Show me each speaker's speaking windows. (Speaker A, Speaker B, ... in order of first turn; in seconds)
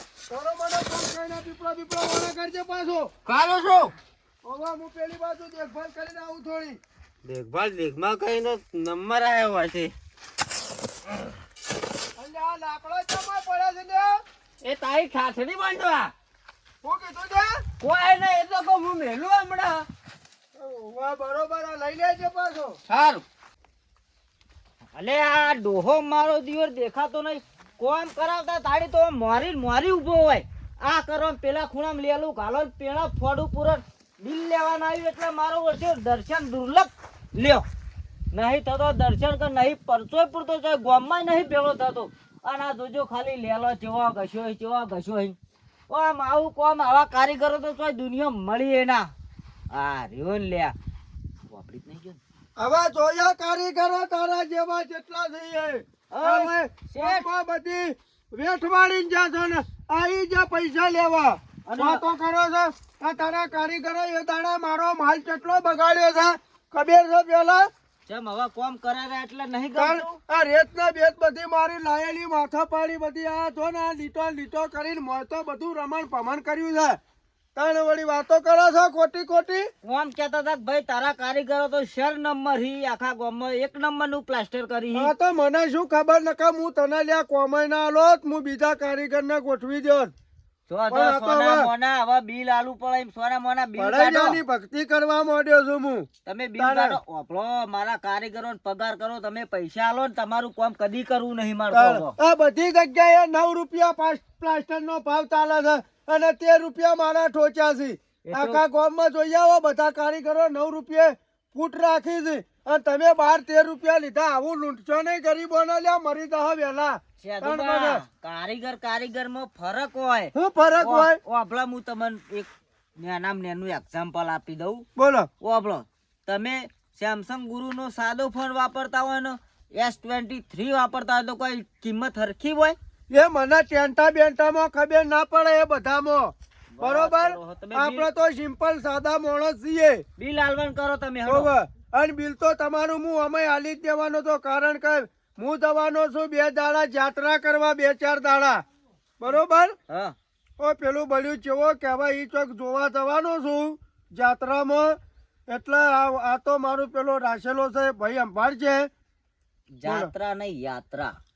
Speaker A: 0.3-3.1, 4.4-6.8, 12.2-14.2, 16.8-17.6, 20.6-22.8, 52.6-67.7, 69.8-77.0, 77.6-79.7, 84.9-90.1, 90.9-91.7, 93.8-96.1, 96.6-97.0, 101.7-118.0, 120.3-121.2, 125.0-125.3, 133.1-140.0, 141.2-148.6, 149.2-149.8, 150.6-155.0, 155.5-158.9, 159.8-160.1
Speaker B: 3.3-3.9, 7.2-9.9, 14.6-16.1, 17.8-19.9, 22.9-23.2
Speaker C: 24.9-37.6, 38.3-45.4, 45.9-49.1, 49.7-50.8, 51.5-52.2, 56.1-57.3, 61.7-62.0, 68.1-70.1, 79.8-85.1, 90.7-94.4, 96.2-102.1, 108.3-108.6, 117.2-124.9, 125.4-132.8, 136.8-138.1, 140.2-141.5, 149.9-150.1, 159.8-161.2